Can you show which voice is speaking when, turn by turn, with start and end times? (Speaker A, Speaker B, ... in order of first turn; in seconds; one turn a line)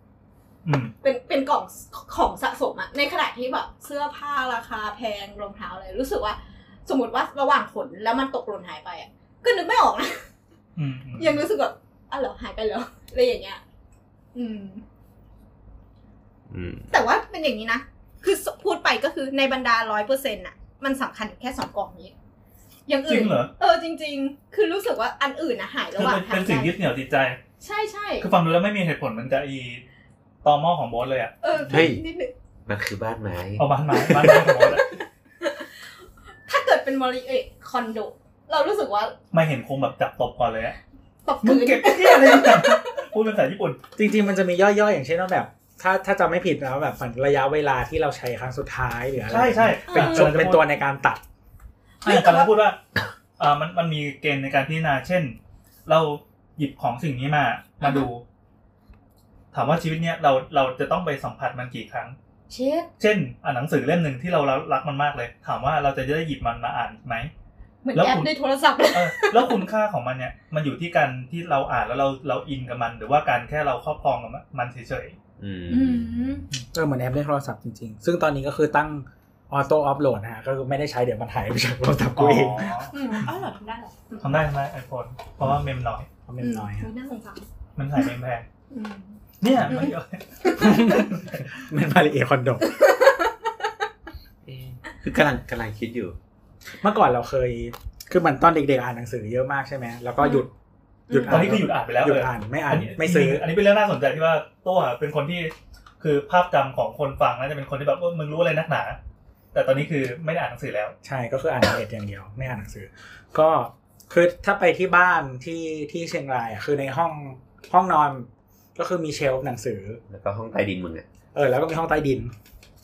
Speaker A: 0.6-0.9
Speaker B: 1.0-10.2
Speaker A: 10.8-11.4
Speaker B: 11.2-13.6
Speaker B: 14.3-14.8
Speaker C: 16.5-16.9
Speaker B: 16.9-22.1
Speaker B: 22.9-26.7
Speaker A: 23.1-23.5
Speaker A: 25.9-27.4
Speaker B: 27.6-28.3
Speaker A: 28.2-29.8
Speaker A: 30.4-31.8
Speaker B: 31.4-32.3
Speaker C: 31.7-32.0
Speaker C: 32.7-34.7
Speaker A: 33.6-34.9
Speaker B: 35.4-35.9
Speaker B: 36.5-39.1
Speaker A: 39.3-40.8
Speaker B: 41.2-43.0
Speaker A: 41.4-43.8
Speaker D: 44.0-51.2
Speaker A: 49.3-50.7
Speaker B: 49.9-50.2
Speaker B: 52.0-52.5
Speaker A: 52.0-52.8
Speaker A: 53.4-58.2
Speaker B: 57.8-58.1
Speaker A: 59.5-62.1
Speaker B: 62.5-62.9
Speaker A: 63.0-67.3
Speaker B: 67.8-69.6
Speaker A: 67.9-68.3
Speaker A: 68.9-75.2
Speaker C: 75.4-76.3
Speaker B: 75.7-76.4
Speaker D: 76.7-82.8
Speaker A: 82.1-83.3
Speaker B: 82.9-84.2
Speaker A: 84.2-86.1
Speaker D: 86.3-86.9
Speaker B: 86.4-87.5
Speaker A: 87.8-88.5
Speaker B: 88.7-90.9
Speaker A: 89.4-91.4
Speaker D: 90.6-92.8
Speaker B: 92.7-93.5
Speaker C: 94.5-96.2
Speaker D: 96.8-100.5
Speaker B: 101.1-101.5
Speaker D: 101.1-103.4
Speaker A: 101.3-109.0
Speaker A: 109.5-110.9
Speaker D: 111.0-120.0
Speaker C: 120.1-121.0
Speaker D: 121.3-122.3